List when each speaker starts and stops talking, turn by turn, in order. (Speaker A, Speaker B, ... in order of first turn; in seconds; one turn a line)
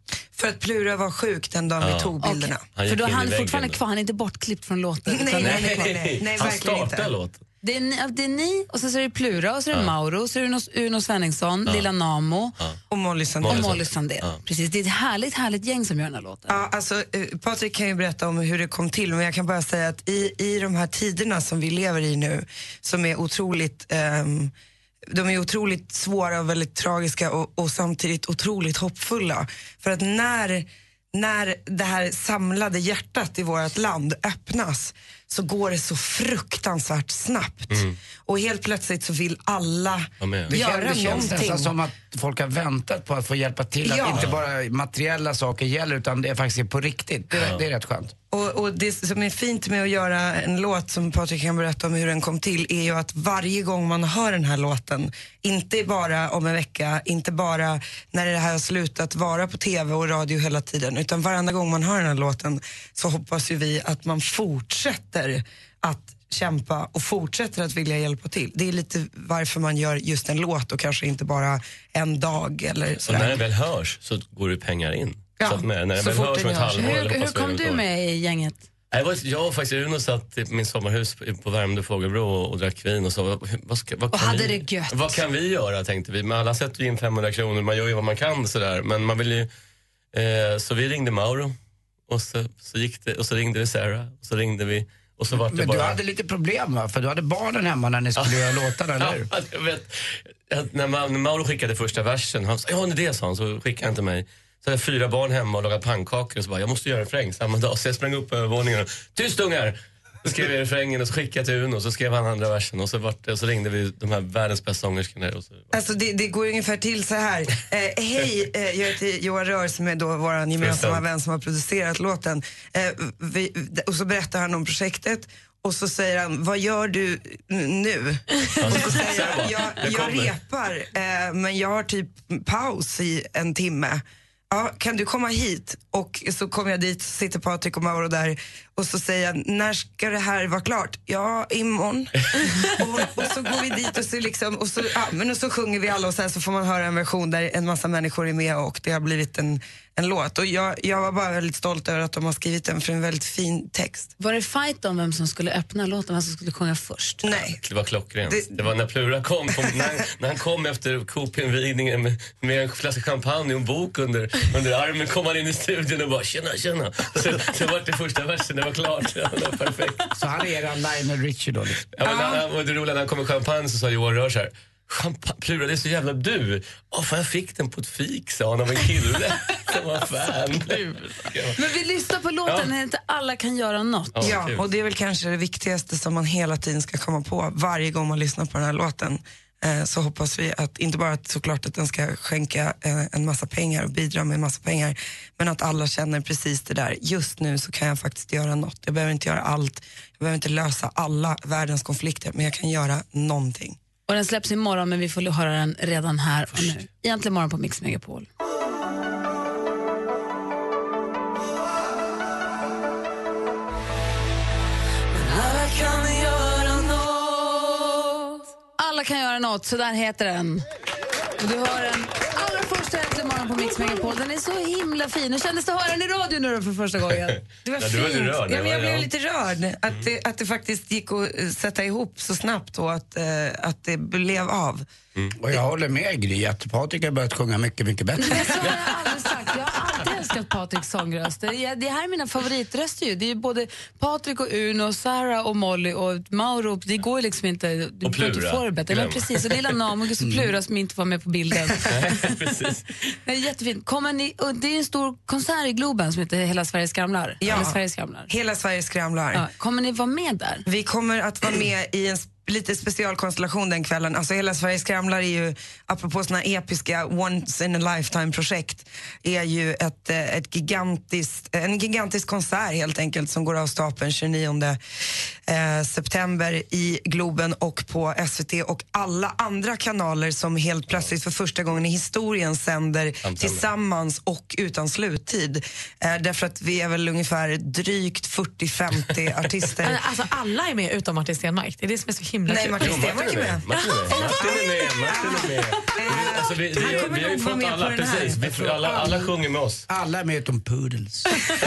Speaker A: 0.3-2.6
Speaker B: 1.8-2.1
Speaker C: 2.2-5.9
Speaker B: 2.7-3.8
Speaker A: 5.1-7.1
Speaker B: 5.4-7.4
Speaker C: 7.6-12.5
Speaker A: 12.9-13.8
Speaker B: 13.4-14.4
Speaker C: 13.5-16.6
Speaker A: 16.5-24.5
Speaker A: 25.1-41.7
Speaker B: 37.7-38.0
Speaker B: 40.2-40.5
Speaker D: 40.5-48.1
Speaker A: 43.8-44.3
Speaker B: 44.0-44.3
Speaker B: 47.3-47.6
Speaker A: 48.3-73.4
Speaker B: 73.0-77.8
Speaker D: 73.1-73.3
Speaker A: 75.4-76.6
Speaker C: 76.3-78.6
Speaker B: 78.9-89.5
Speaker C: 84.1-85.2
Speaker B: 90.1-91.5
Speaker B: 92.1-96.0
Speaker D: 95.3-99.3
Speaker B: 98.2-115.7
Speaker A: 115.7-154.1
Speaker B: 120.6-121.0
Speaker B: 128.6-130.3
Speaker C: 154.2-157.2
Speaker A: 157.2-157.6
Speaker B: 157.3-170.0
Speaker A: 158.3-158.7
Speaker D: 170.2-171.8
Speaker B: 171.9-181.6
Speaker A: 172.0-172.4
Speaker E: 180.6-181.3
Speaker C: 181.6-184.2
Speaker B: 184.2-184.6
Speaker A: 184.2-203.8
Speaker C: 204.1-208.3
Speaker C: 218.8-220.6
Speaker C: 221.4-227.4
Speaker A: 227.6-234.8
Speaker B: 227.8-229.1
Speaker D: 235.4-238.7
Speaker C: 238.2-252.3
Speaker B: 248.0-249.7
Speaker D: 250.2-250.5
Speaker B: 251.9-252.9
Speaker C: 253.2-258.3
Speaker A: 257.4-259.4
Speaker C: 259.3-260.6
Speaker A: 260.7-274.8
Speaker A: 275.5-290.0
Speaker B: 283.2-283.6
Speaker E: 289.8-294.8
Speaker A: 292.5-299.3
Speaker B: 292.8-299.9
Speaker D: 299.9-301.5